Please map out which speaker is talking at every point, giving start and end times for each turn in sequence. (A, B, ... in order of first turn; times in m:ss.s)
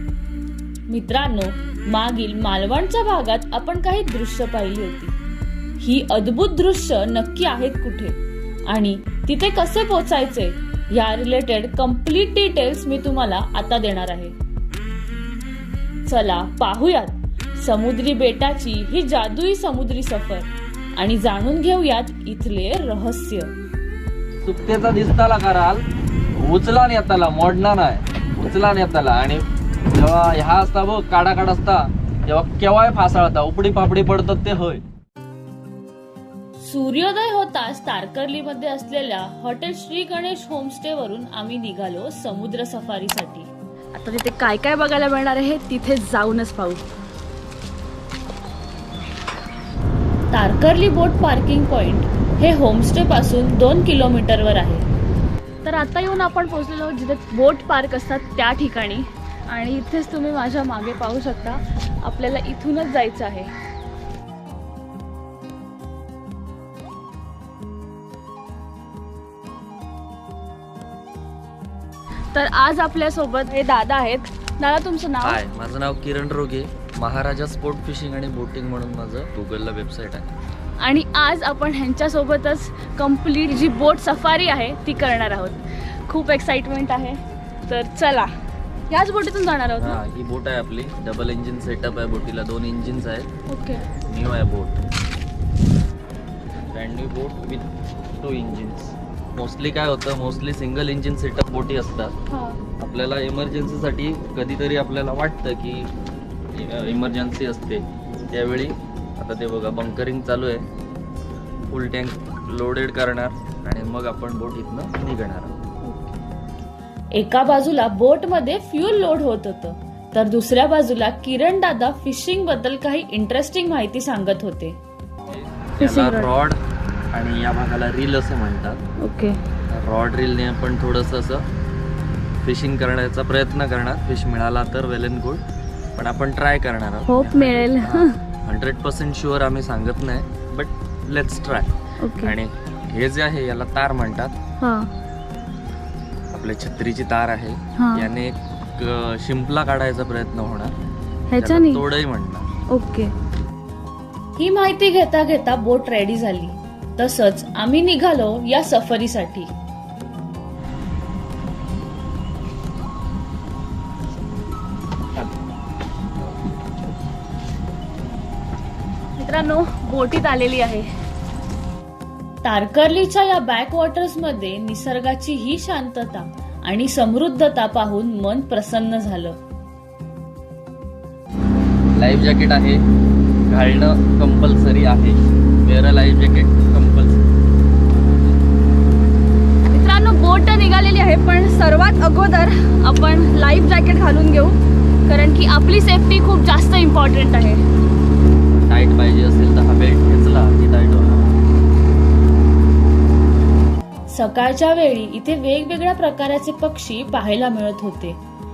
0:00.9-0:05.2 A
0:05.8-0:14.4 A
0:16.0-0:23.6 A
0:24.4-0:25.8 B
0:26.4-0:34.8 B
0:36.6-0:43.5 A
0:43.9-0:46.8 C
0:50.3-0:54.8 A
0:55.6-1:03.5 C
1:12.3-1:15.4 C
1:15.2-1:20.3 B
1:20.8-1:28.3 C
1:28.9-1:30.0 C
1:29.8-1:33.3 B
1:33.5-1:33.8 C
1:34.1-1:34.8 B
1:36.7-1:42.1 B
1:42.3-1:42.6 C
1:42.8-1:45.9 B
1:46.5-1:50.6 B
1:51.7-1:55.6 B
1:55.8-1:56.2 C
1:57.1-2:04.8 A
2:05.3-2:06.6 B
2:05.8-2:06.3 C
2:07.1-2:08.8 B
2:09.0-2:09.4 C
2:09.7-2:11.4 B
2:12.4-2:15.4 B
2:16.0-2:24.4 B
2:17.1-2:18.2 C
2:22.0-2:22.4 C
2:24.6-2:24.9 C
2:26.3-2:30.7 B
2:27.8-2:28.1 C
2:31.3-2:31.8 C
2:31.4-2:32.5 B
2:32.7-2:33.1 C
2:34.4-2:39.5 A
2:49.2-2:50.9 C
2:52.4-2:59.4 A
3:01.9-3:02.8 B
3:03.5-3:07.3 B
3:09.7-3:17.6 C
3:18.5-3:21.2 B
3:24.1-3:28.2 A